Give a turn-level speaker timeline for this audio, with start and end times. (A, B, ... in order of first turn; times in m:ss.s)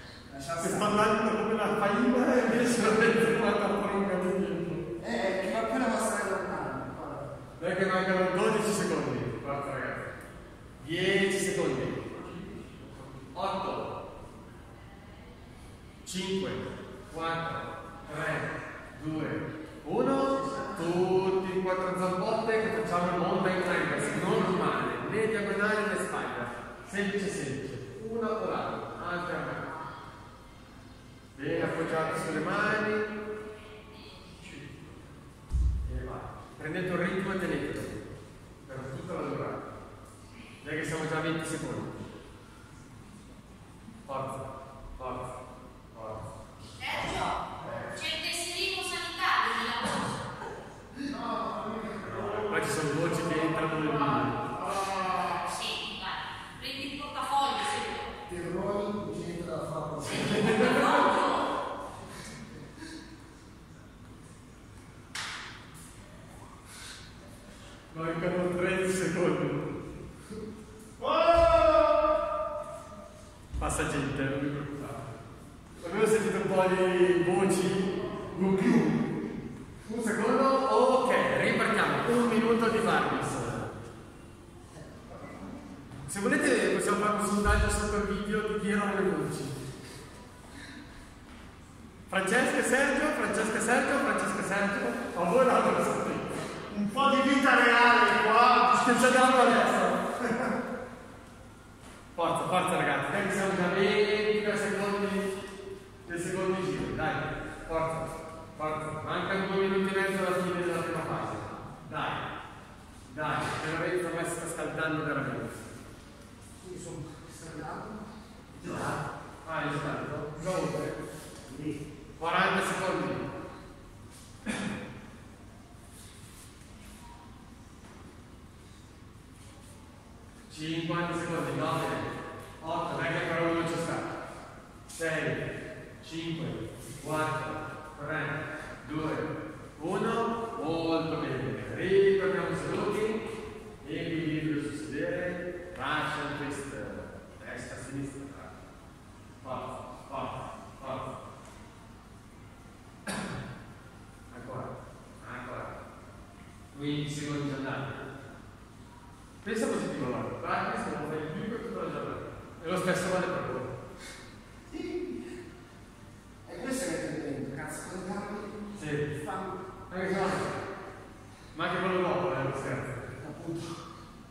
0:00.3-0:01.1 A
0:00.6-0:04.8 B
0:05.0-0:07.3 A
0:07.6-0:10.1 B
0:10.8-0:12.0 B
0:13.3-0:13.9 B
0:16.0-0:29.8 B
0:31.3-0:33.1 B
0:35.8-0:38.1 B
0:38.6-0:39.6 B
0:40.6-0:42.0 B
0:44.0-0:44.4 B
0:45.0-0:45.3 B
0:45.9-0:46.3 B
0:46.9-0:48.0 B
0:46.9-0:47.3 C
0:48.0-0:50.1 C
0:51.2-0:51.9 A
0:52.0-0:54.5 B
0:55.3-0:58.1 C
0:58.3-1:01.1 A
1:00.2-1:01.4 C
1:07.9-1:09.7 B
1:11.0-1:12.1 B
1:13.6-1:15.0 B
1:15.8-1:19.0 B
1:19.8-1:23.8 B
1:26.0-1:29.6 B
1:32.1-1:40.5 B
1:42.1-1:45.3 B
1:46.0-1:52.3 B
1:53.1-1:55.7 B
1:56.6-1:59.0 A
1:59.4-2:00.9 B
2:01.4-2:01.8 A
2:02.2-2:03.2 B
2:10.5-2:14.1 B
2:14.9-2:15.5 B
2:16.0-2:23.2 B
2:23.8-2:28.5 B
2:29.4-2:31.2 B
2:34.3-2:35.7 B
2:36.7-2:38.0 B
2:39.4-2:43.7 B
2:44.7-2:45.3 A
2:46.4-2:48.6 A
2:48.7-2:49.1 B
2:49.2-2:49.6 A
2:49.9-2:50.6 B
2:51.5-2:53.1 B
2:53.2-2:53.8 A